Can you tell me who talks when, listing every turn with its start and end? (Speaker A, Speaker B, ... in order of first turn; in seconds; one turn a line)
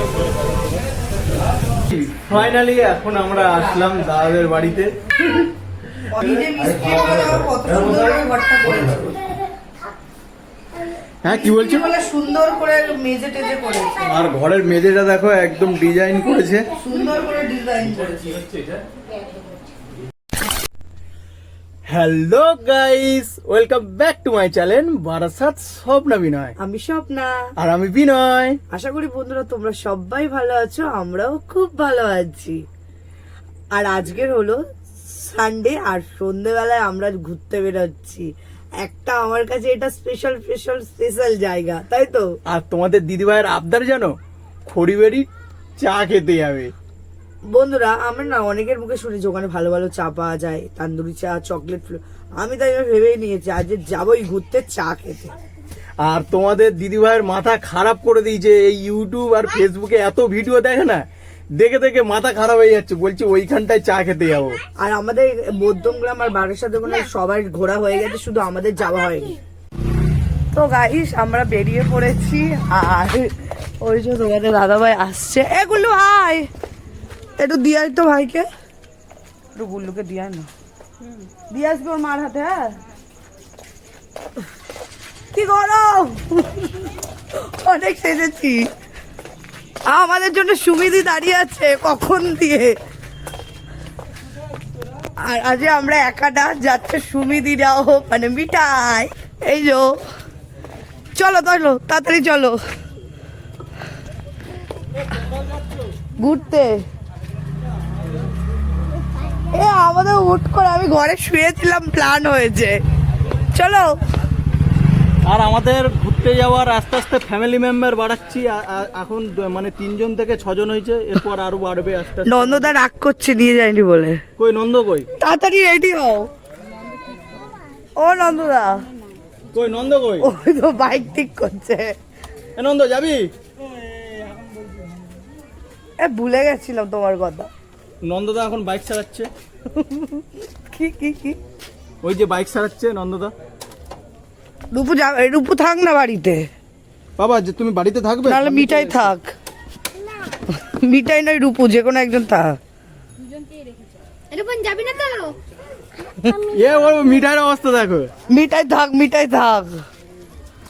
Speaker A: 1.9-4.9
Speaker B: 6.1-9.2
Speaker A: 11.2-11.9
Speaker B: 11.3-14.1
Speaker A: 14.1-16.7
Speaker B: 16.8-18.5
Speaker A: 21.9-26.6
Speaker B: 26.6-27.4
Speaker A: 27.6-28.6
Speaker B: 28.7-32.6
Speaker B: 33.7-38.3
Speaker B: 38.8-42.3
Speaker A: 42.5-44.2
Speaker A: 44.7-45.3
Speaker A: 45.8-46.7
Speaker B: 47.5-55.3
Speaker A: 56.0-61.0
Speaker A: 61.6-64.6
Speaker B: 64.8-69.4
Speaker B: 70.5-73.3
Speaker B: 73.8-76.5
Speaker B: 77.4-78.5
Speaker B: 79.6-80.5
Speaker B: 81.3-82.7
Speaker B: 85.3-88.7
Speaker B: 89.9-92.8
Speaker B: 95.2-100.0
Speaker B: 101.2-102.6
Speaker B: 106.2-106.8
Speaker B: 109.5-112.8
Speaker B: 113.5-114.0
Speaker A: 115.2-122.7
Speaker B: 122.2-124.2
Speaker A: 124.4-125.1
Speaker B: 125.2-126.3
Speaker B: 128.0-128.8
Speaker A: 129.5-130.3
Speaker B: 130.2-131.9
Speaker A: 132.6-133.3
Speaker B: 136.0-137.5
Speaker A: 138.0-139.3
Speaker B: 139.8-141.4
Speaker A: 142.0-143.3
Speaker B: 144.7-146.5
Speaker A: 147.2-149.1
Speaker B: 148.2-149.3
Speaker B: 150.6-152.6
Speaker C: 153.2-155.3
Speaker A: 156.5-158.1
Speaker B: 158.3-159.8